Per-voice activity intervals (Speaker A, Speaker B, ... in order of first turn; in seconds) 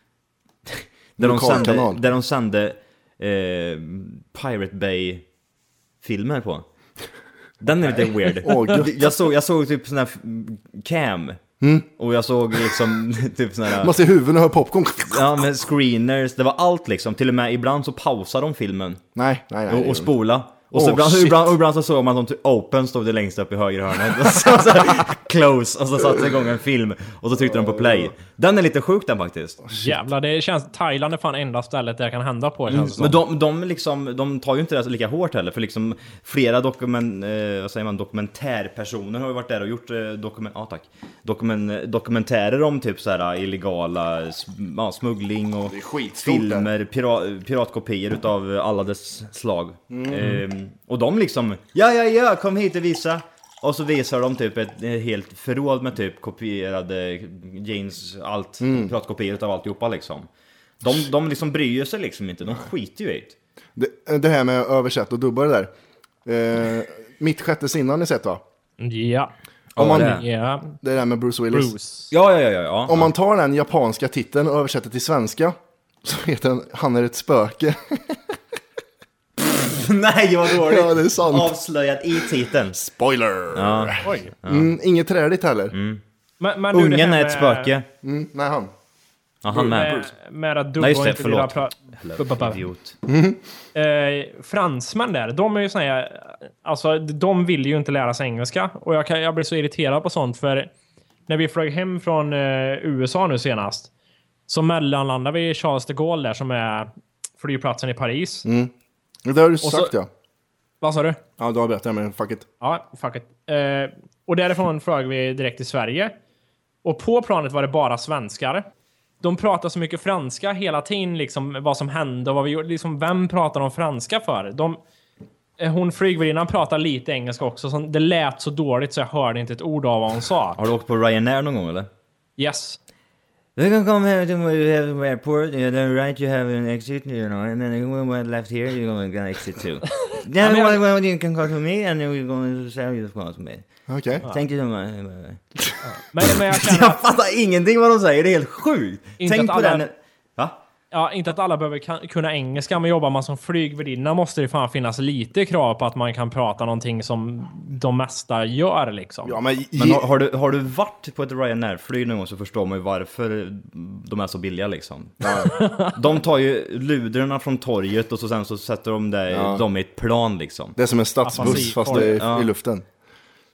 Speaker A: 0.7-5.2, 6.0-6.7, 7.6-11.4, 12.0-13.9, 15.1-19.0, 19.7-29.6, 32.7-60.3, 60.8-63.4, 69.8-70.2, 72.1-73.1, 79.5-82.8, 83.5-84.7, 85.7-86.0, 86.7-87.9, 89.4-90.0, 90.8-93.0, 130.6-131.9, 133.6-143.6, 144.3-145.4, 146.5-150.6, 159.7-170.8, 171.4-172.5
Speaker B: 1.2-2.0, 8.4-8.9, 11.6-11.9, 13.8-15.4, 19.1-20.1, 20.7-21.5, 27.5-28.1, 29.7-30.0, 45.6-46.7, 49.9-50.4, 58.6-58.9, 63.8-65.7, 66.2-68.4, 69.8-70.2, 70.8-71.7, 72.9-78.2, 80.5-81.5, 82.2-85.8, 88.0-88.7, 89.5-89.9, 93.0-93.4, 108.4-108.7, 109.2-110.1, 111.4-112.5, 143.9-144.2, 159.2-160.1, 165.2-165.5, 169.3-169.6, 170.8-172.8
Speaker C: 29.7-33.2, 68.8-69.3, 69.8-70.8, 71.5-72.1, 84.0-84.3, 86.4-87.7, 89.5-92.6, 93.7-100.7, 101.3-103.9, 104.5-108.5, 109.6-109.9, 110.8-111.2, 112.6-116.1, 116.8-118.7, 119.2-124.8, 125.6-130.6, 132.4-132.8, 140.4-140.8, 145.8-147.0, 149.2-149.8, 150.9-159.4, 165.4-165.9, 171.2-172.1